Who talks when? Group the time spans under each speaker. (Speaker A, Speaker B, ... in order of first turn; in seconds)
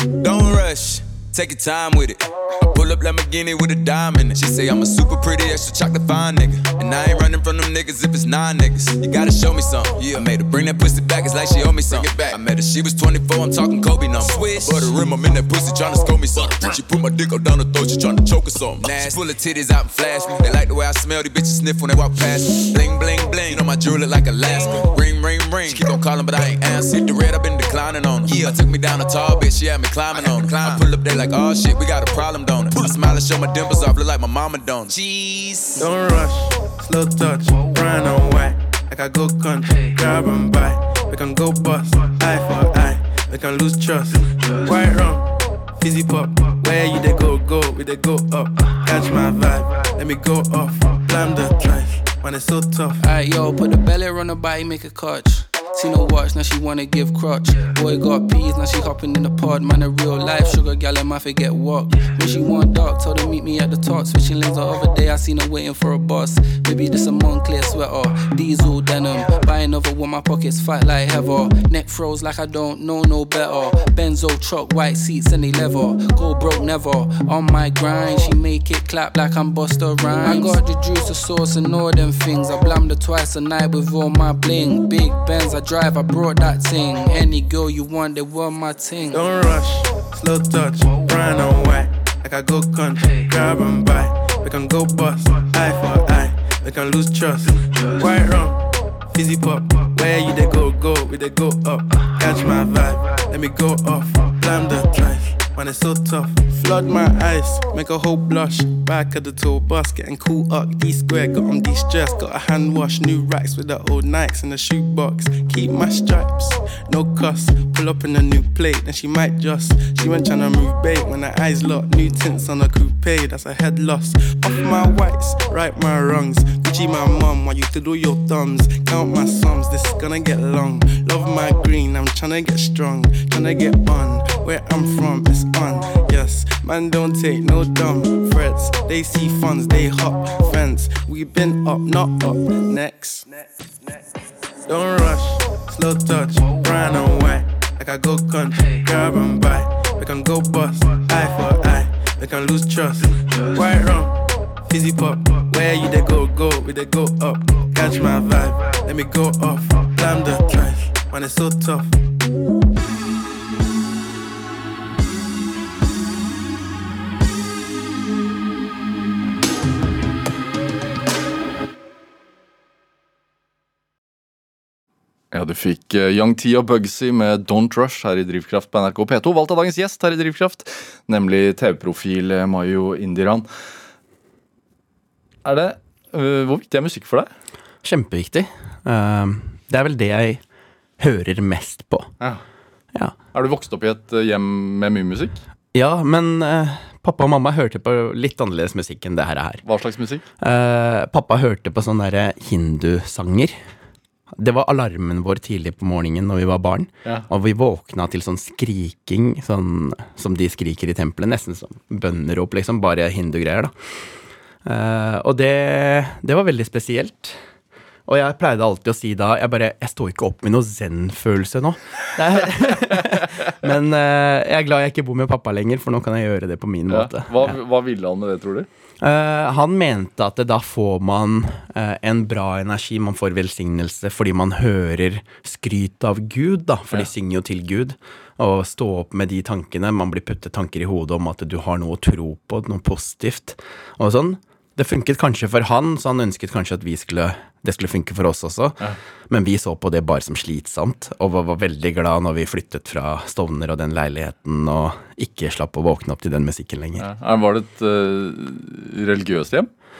Speaker A: 0.2-35.8
Speaker B: 35.8-53.0, 89.1-143.9, 144.6-162.0
Speaker C: 53.0-89.2
Speaker D: 175.3-183.5, 185.4-187.3, 193.3-195.4, 199.6-200.2, 226.9-228.7, 257.0-259.7
Speaker E: 187.8-190.4, 191.0-192.1, 195.7-199.6, 200.4-203.6, 204.3-214.1, 214.6-217.4, 218.1-227.6, 229.0-257.1